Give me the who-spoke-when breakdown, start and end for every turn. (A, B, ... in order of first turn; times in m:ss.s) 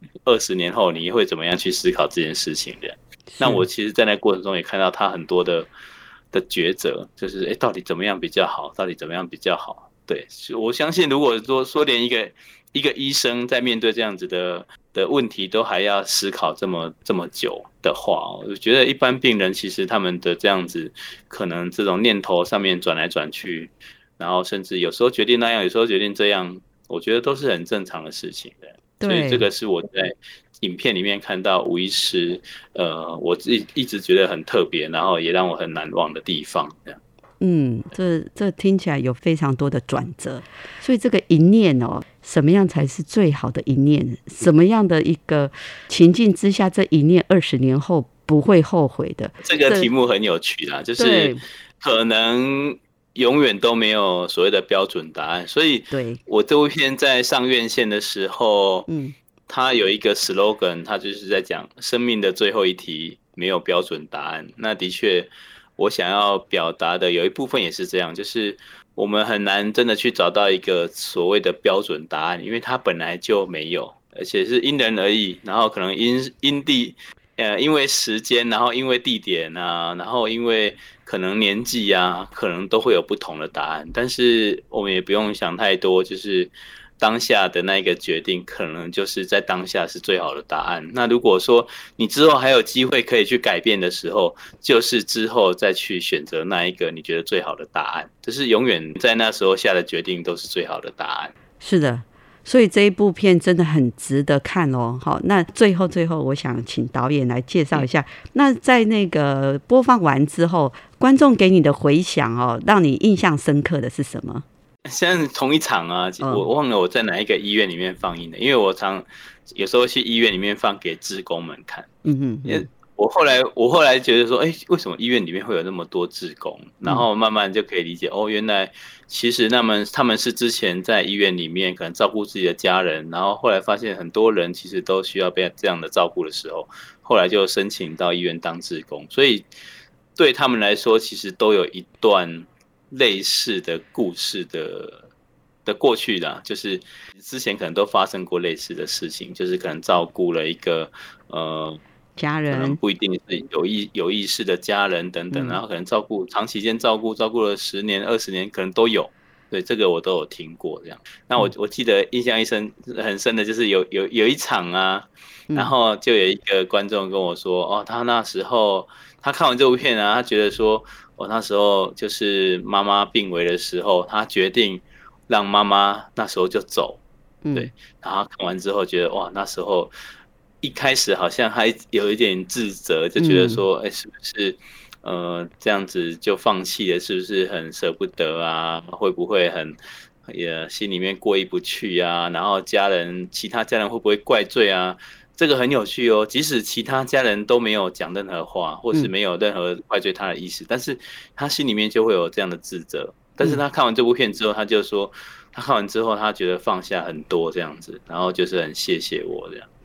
0:00.3-0:05.7 A
0:03.3-0:03.6 B
0:06.3-0:37.0 A
0:29.0-0:29.5 B
0:37.4-0:49.9 B
0:49.4-0:58.9 A
0:51.0-0:51.4 B
0:55.9-0:56.2 B
0:58.9-0:59.2 B
0:59.5-1:41.3 A
1:41.6-1:54.5 B
1:54.9-2:01.9 A
2:02.0-2:02.7 B
2:02.5-2:19.5 A
2:20.2-2:25.1 A
2:25.6-2:31.8 A
2:32.2-2:32.8 B
2:32.5-2:57.0 A
2:35.3-2:35.6 B
2:57.4-2:57.7 B
2:57.5-2:59.9 A
3:00.6-3:29.7 A
3:03.2-3:03.6 B